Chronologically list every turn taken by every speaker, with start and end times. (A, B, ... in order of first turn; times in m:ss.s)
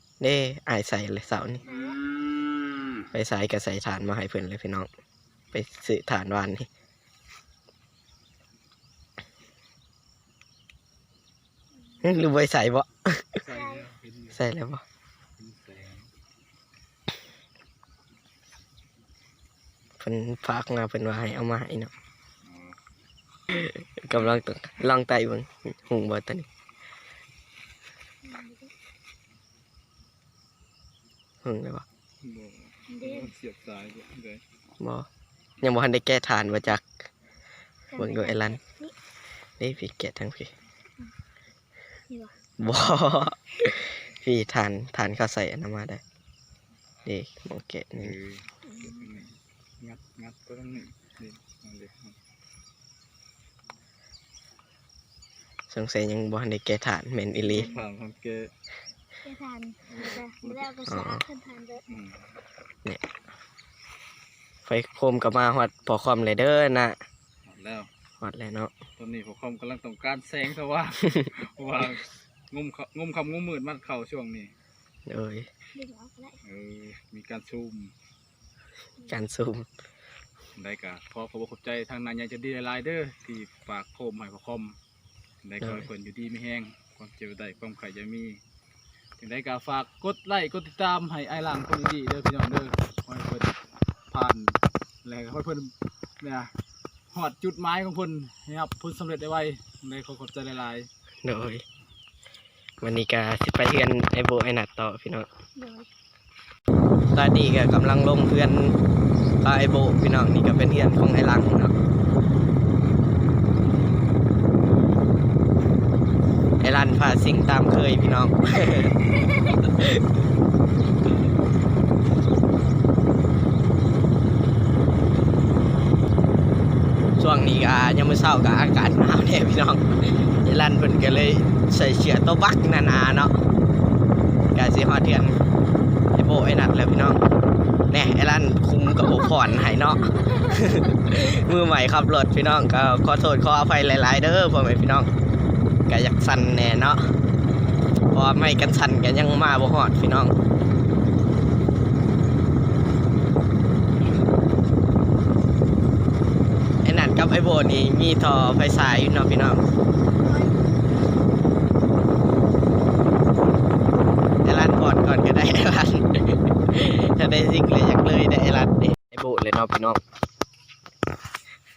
0:00.2-0:01.6 A
0:01.6-0:02.0 B
0:03.1-0:04.9 A
0:05.5-0:06.7 A
0:12.0-0:13.4 A
0:13.4-0:14.4 C
0:13.4-0:13.9 B
0:14.3-0:14.8 A
0:15.4-0:16.1 C
0:20.0-0:21.9 A
0:22.4-0:22.8 C
0:23.5-0:26.5 A
0:28.2-0:28.7 B
0:31.4-0:31.9 A
0:32.2-0:34.4 C
0:32.9-0:33.3 B
0:34.8-0:35.1 A
0:35.6-0:36.9 A
0:37.9-0:38.9 B
0:38.0-0:38.6 A
0:39.6-0:40.5 A
0:42.6-0:46.0 A
0:47.0-0:48.2 A
0:48.0-0:52.2 C
0:48.7-0:49.1 B
0:55.7-0:57.7 A
0:57.4-0:58.5 C
0:59.2-1:01.8 B
0:59.9-1:00.7 C
1:00.9-1:01.2 A
1:01.9-1:02.3 C
1:04.7-1:07.0 A
1:07.4-1:07.9 C
1:08.2-1:08.7 A
1:09.0-1:14.5 C
1:15.1-1:15.5 A
1:15.7-1:16.4 B
1:16.4-1:17.9 C
1:19.1-1:19.7 A
1:20.6-1:24.8 C
1:25.4-1:28.4 C
1:25.6-1:25.9 A
1:29.2-1:33.6 C
1:34.1-1:36.5 C
1:37.1-1:40.9 C
1:41.2-1:41.6 A
1:42.8-1:45.3 A
1:45.6-1:45.9 B
1:47.1-1:48.8 A
1:49.4-1:51.7 A
1:56.6-1:59.0 A
2:07.2-2:13.3 A
2:14.5-2:15.4 A
2:16.2-2:17.2 A
2:17.9-2:25.1 A
2:25.9-2:27.0 A
2:28.1-2:30.3 A
2:36.8-2:39.6 A
2:40.2-2:40.5 B
2:44.4-2:46.1 A
2:46.7-2:50.0 A